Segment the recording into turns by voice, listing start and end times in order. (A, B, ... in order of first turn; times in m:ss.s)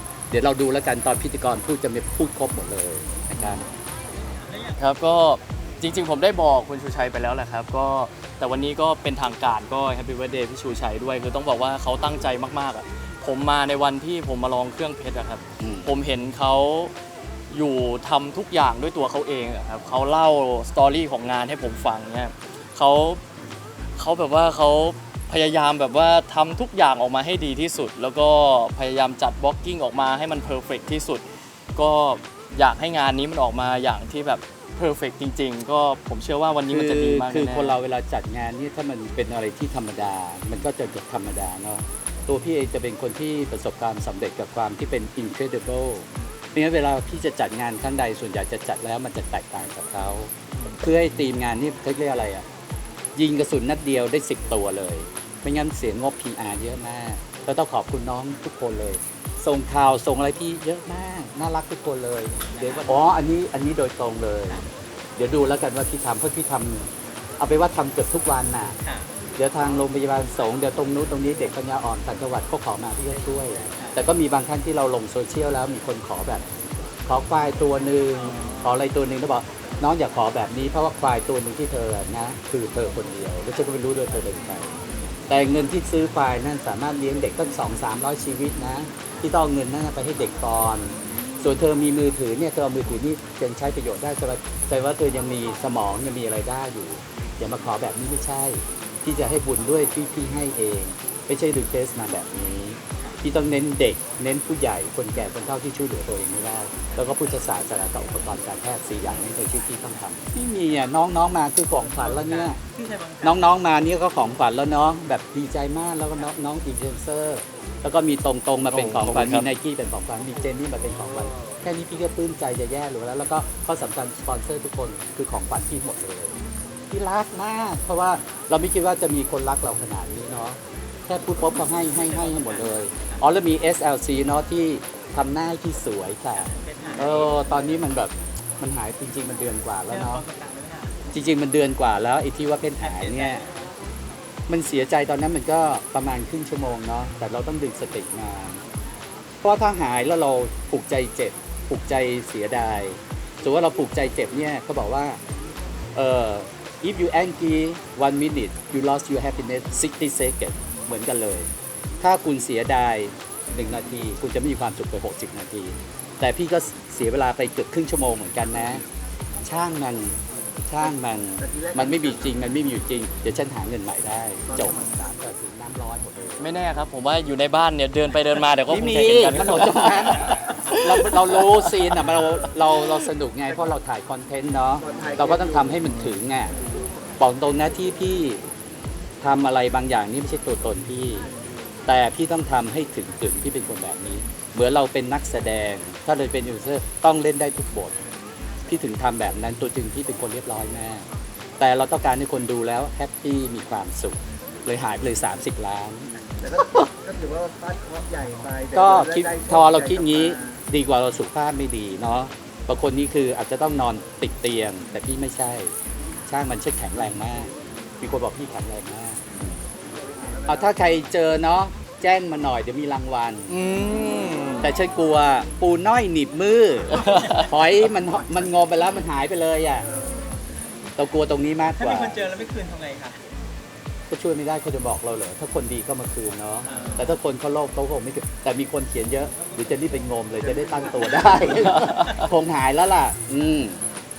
0:00.3-0:03.6 A
0:04.8-0:16.9 B
0:15.6-0:15.9 A
0:17.5-0:23.2 B
0:24.0-0:37.8 B
0:36.7-0:52.4 A
0:53.1-1:04.6 A
1:05.2-1:08.8 A
1:09.4-1:16.4 A
1:17.0-1:24.7 A
1:25.3-1:52.6 A
1:52.1-1:53.4 C
1:53.2-2:06.4 A
1:58.7-1:59.5 B
2:06.9-2:20.2 A
2:16.5-2:17.3 C
2:19.9-2:20.9 C
2:21.1-2:23.4 A
2:22.9-2:23.6 C
2:24.5-2:28.6 A
2:29.4-2:35.2 A
2:35.9-2:41.5 A
2:42.0-2:48.8 A
2:49.4-2:50.2 A
2:50.7-2:56.5 A
2:56.4-3:02.0 B
2:58.7-3:06.5 A
3:05.8-3:06.1 B
3:07.2-3:08.4 A
3:09.2-3:11.3 A
3:11.9-3:18.0 A
3:18.6-3:21.0 A
3:21.6-3:26.8 A
3:26.4-3:29.5 D
3:28.7-3:35.7 A
3:36.3-3:39.3 A
3:40.4-3:43.6 A
3:43.5-3:44.7 B
3:44.6-3:49.9 A
3:51.0-3:52.3 A
3:51.8-3:53.2 C
3:54.1-4:03.8 A
3:56.7-3:57.0 C
4:01.7-4:02.2 B